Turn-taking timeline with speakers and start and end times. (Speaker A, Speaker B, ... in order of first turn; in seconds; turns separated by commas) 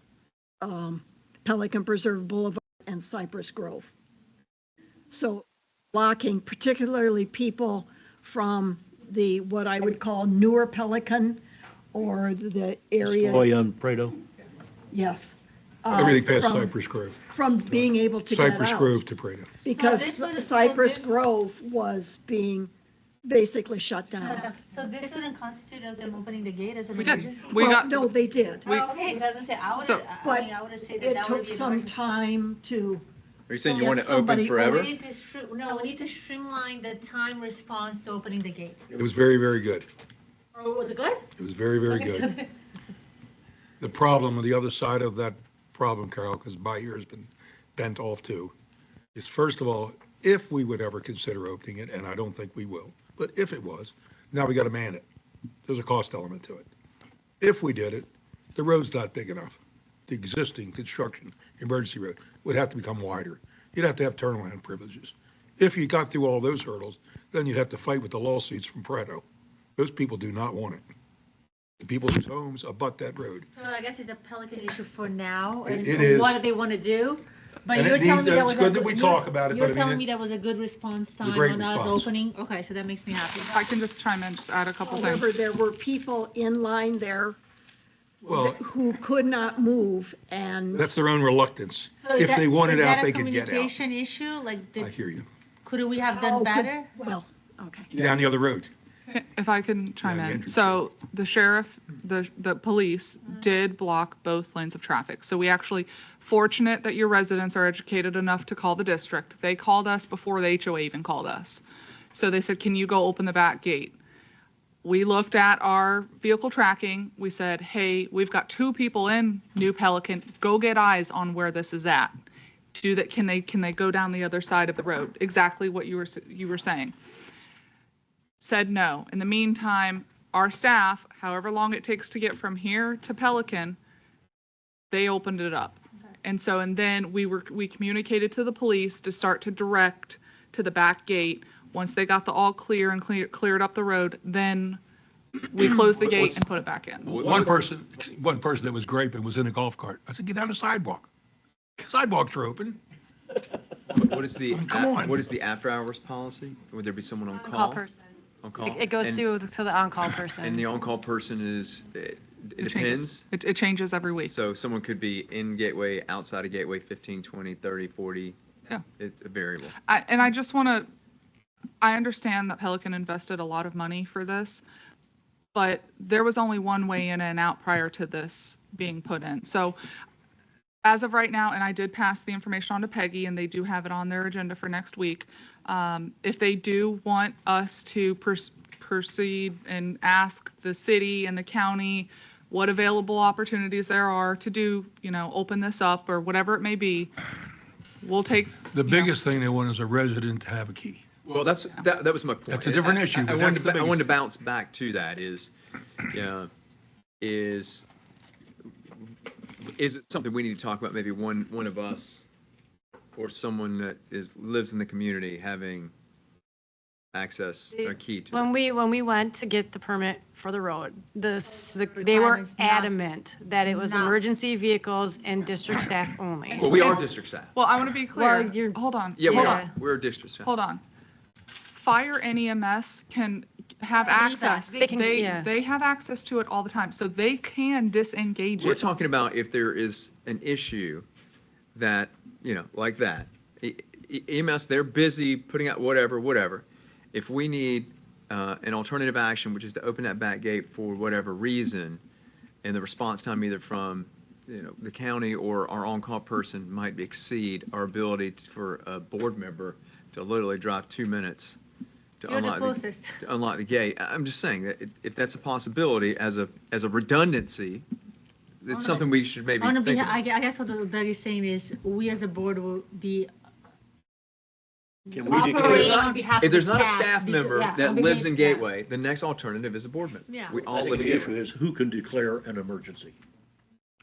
Speaker A: 0.6-3.9, Speaker A: 5.1-11.4, Speaker A: 11.9-13.5, Speaker B: 13.0-14.2, Speaker A: 14.9-16.7, Speaker C: 15.9-17.2, Speaker A: 17.3-19.0, Speaker C: 18.3-19.5, Speaker A: 19.6-22.7, Speaker D: 19.7-21.3, Speaker A: 23.2-24.5, Speaker D: 24.2-27.6, Speaker E: 27.0-28.1, Speaker A: 27.6-28.7, Speaker D: 28.6-31.9, Speaker E: 28.7-28.9, Speaker E: 29.8-30.1, Speaker A: 30.2-33.0, Speaker F: 33.5-34.9, Speaker A: 33.7-34.8, Speaker D: 34.6-38.8, Speaker C: 38.9-39.9, Speaker D: 40.5-41.3, Speaker C: 41.4-42.3, Speaker D: 41.9-42.5, Speaker C: 43.8-48.5, Speaker C: 49.1-55.0, Speaker C: 55.6-56.7, Speaker C: 57.4-69.2, Speaker C: 69.8-70.8, Speaker C: 71.8-73.5, Speaker D: 73.5-83.6, Speaker C: 75.6-76.4, Speaker C: 77.7-80.0, Speaker C: 81.2-82.1, Speaker E: 83.5-85.3, Speaker A: 84.8-87.4, Speaker A: 88.2-90.9, Speaker C: 88.2-88.6, Speaker C: 90.7-93.8, Speaker D: 92.0-94.9, Speaker C: 94.8-95.2, Speaker D: 95.6-96.9, Speaker A: 96.1-97.9, Speaker C: 97.9-98.7, Speaker E: 99.1-111.6, Speaker C: 100.0-100.8, Speaker E: 112.1-114.0, Speaker E: 114.8-122.1, Speaker E: 122.8-126.9, Speaker E: 128.4-133.8, Speaker E: 134.9-144.8, Speaker E: 145.5-147.2, Speaker C: 146.2-146.4, Speaker C: 147.0-151.1, Speaker F: 147.1-147.5, Speaker C: 151.8-152.8, Speaker F: 153.9-157.8, Speaker C: 154.5-155.2, Speaker G: 157.4-157.9, Speaker F: 158.4-159.2, Speaker G: 158.6-160.6, Speaker F: 160.2-163.3, Speaker E: 162.6-164.4, Speaker F: 164.3-168.4, Speaker F: 169.0-169.8, Speaker E: 169.8-170.9, Speaker E: 171.8-174.6, Speaker E: 175.5-179.8, Speaker E: 180.8-197.1, Speaker E: 198.0-199.1, Speaker C: 198.7-201.0, Speaker F: 201.2-205.5, Speaker C: 202.5-204.1, Speaker F: 206.1-206.5, Speaker F: 207.2-207.9, Speaker F: 209.7-212.2, Speaker F: 213.1-215.9, Speaker F: 217.1-218.5, Speaker G: 217.8-226.7, Speaker D: 221.4-223.0, Speaker D: 223.6-224.2, Speaker F: 226.5-227.5, Speaker E: 226.6-229.7, Speaker G: 228.1-228.8, Speaker F: 229.2-230.5, Speaker G: 229.3-229.7, Speaker E: 230.4-230.8, Speaker E: 231.7-238.8, Speaker D: 233.9-235.2, Speaker G: 234.8-235.5, Speaker F: 238.6-241.0, Speaker F: 241.7-252.0, Speaker F: 252.6-261.6, Speaker F: 262.2-267.9, Speaker D: 262.2-263.2, Speaker F: 268.6-270.2, Speaker D: 268.7-269.1, Speaker D: 269.6-273.3, Speaker B: 275.1-276.1, Speaker D: 275.1-278.7, Speaker F: 275.6-281.3, Speaker D: 280.3-280.6, Speaker B: 280.6-283.1